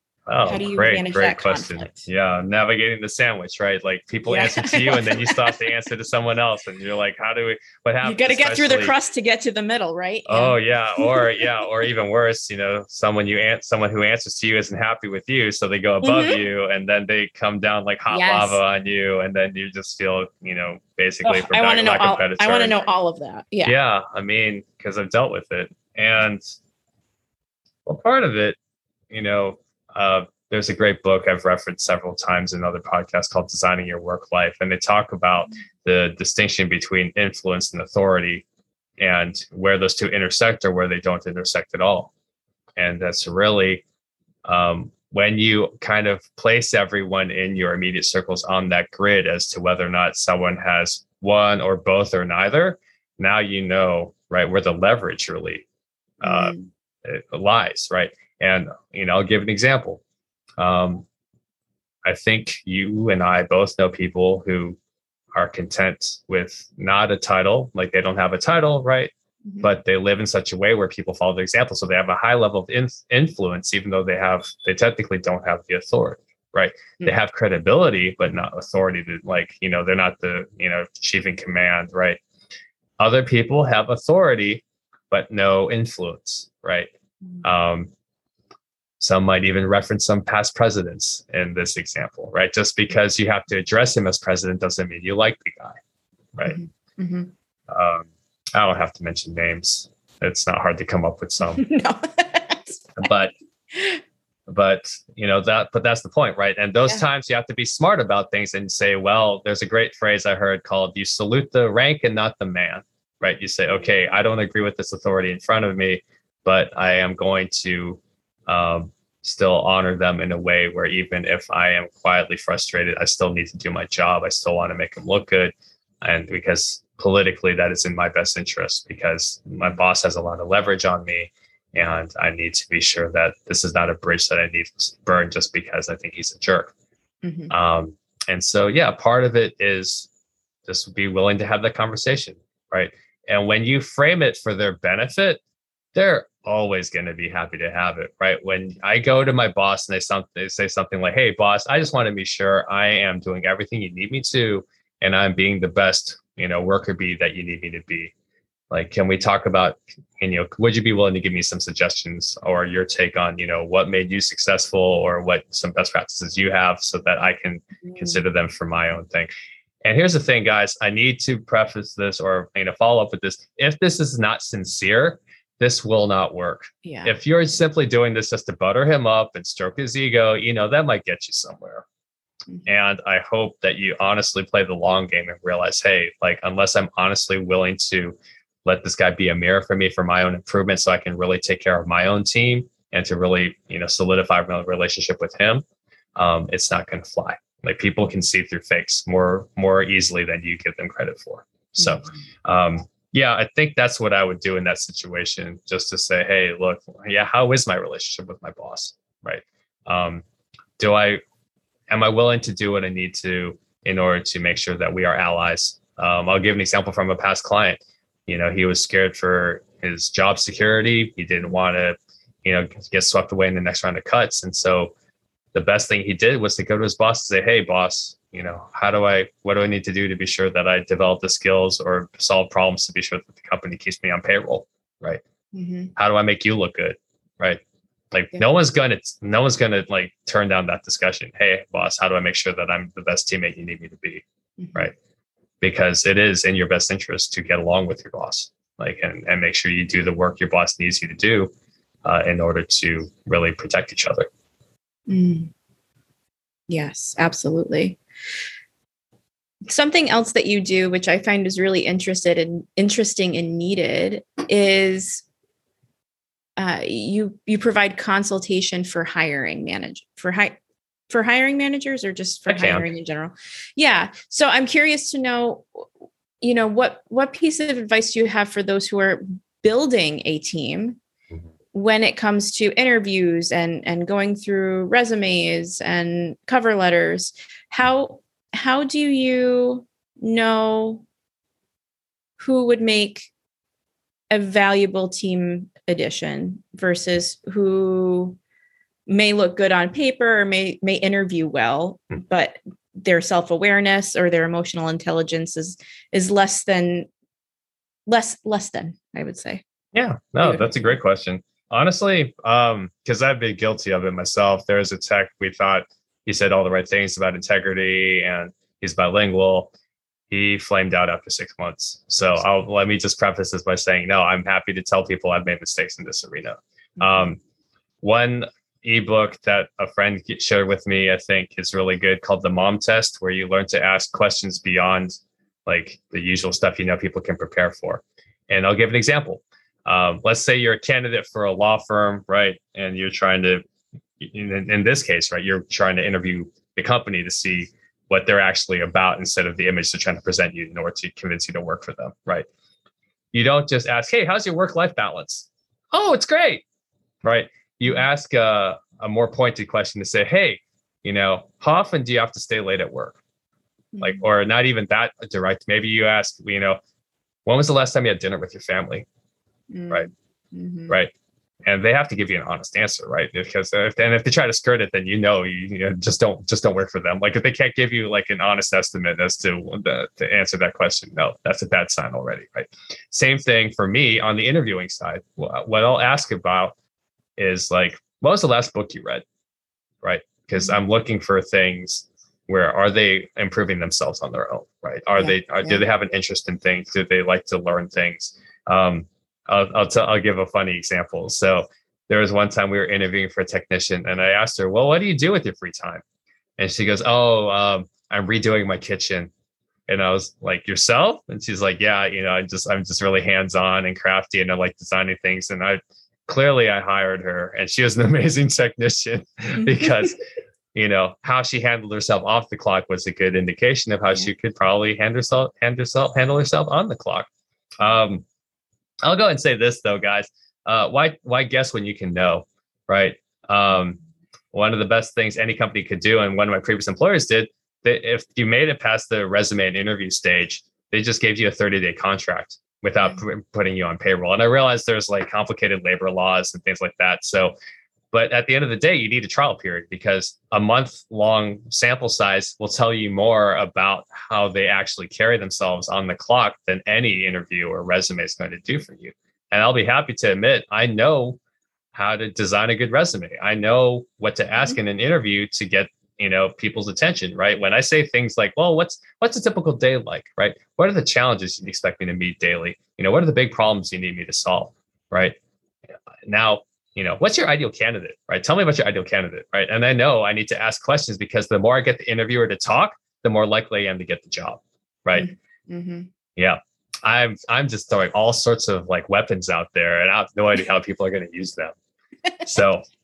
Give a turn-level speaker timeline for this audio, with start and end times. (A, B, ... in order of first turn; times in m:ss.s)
0:00.3-0:08.9 A
0:00.4-0:02.0 B
0:04.3-0:05.6 B
0:08.0-0:11.4 B
0:10.3-0:22.8 A
0:16.0-0:16.4 B
0:18.1-0:18.6 B
0:21.2-0:23.8 B
0:23.6-0:26.4 A
0:27.9-0:28.6 A
0:29.1-0:38.4 A
0:39.0-0:42.1 A
0:42.8-0:43.8 A
0:44.4-0:55.6 A
0:56.2-1:00.0 A
0:56.2-0:56.7 B
1:00.6-1:01.0 A
1:02.1-1:04.8 A
1:05.3-1:22.2 A
1:23.0-1:26.9 A
1:27.4-1:27.9 A
1:29.0-1:35.8 A
1:36.4-1:37.3 B
1:37.7-1:41.6 A
1:41.6-1:43.0 B
1:43.0-1:43.3 A
1:43.7-1:44.0 B
1:44.5-2:16.7 A
2:17.2-2:17.5 B
2:17.5-2:20.1 A
2:20.7-2:25.4 A
2:26.0-2:38.1 A
2:38.7-2:49.3 A
2:47.8-2:48.2 B
2:49.8-3:01.8 A
2:56.8-2:57.2 B
3:02.7-3:15.6 A
3:16.2-3:30.2 A
3:21.8-3:22.1 B
3:30.8-3:31.2 A
3:31.9-3:44.9 A
3:45.5-3:55.2 A
3:55.5-3:55.9 B
3:56.0-4:04.2 A
4:04.6-4:04.9 B
4:05.6-4:11.5 A
4:12.0-4:14.3 A
4:15.1-4:15.5 B
4:16.7-4:18.0 B
4:19.7-4:25.2 B
4:26.6-4:30.6 B
4:31.1-4:35.9 B
4:32.5-4:32.9 A
4:36.4-4:41.0 B
4:41.7-4:51.0 B
4:52.4-4:53.3 B
4:54.3-4:58.4 B
4:59.1-5:07.1 B
5:08.1-5:09.6 B
5:09.9-5:19.7 A
5:20.3-5:27.4 A
5:27.0-5:27.3 B
5:28.0-5:43.6 A
5:44.2-5:52.5 A
5:53.3-5:56.6 A
5:57.2-6:03.2 A
6:03.9-6:04.2 B
6:04.0-6:06.8 A
6:07.5-6:09.1 A
6:09.7-6:11.0 B
6:11.7-6:26.7 A
6:27.4-6:29.2 A
6:30.0-6:46.0 A
6:35.2-6:35.8 B
6:46.6-6:49.3 A
6:49.9-7:00.2 A
7:00.7-7:07.3 A
7:07.8-7:08.2 A
7:09.0-7:14.0 A
7:14.5-7:27.5 A
7:28.1-7:41.4 A
7:41.9-7:55.4 A
7:56.3-8:05.3 A
8:05.2-8:06.1 B
8:06.4-8:11.8 A
8:12.4-8:12.8 A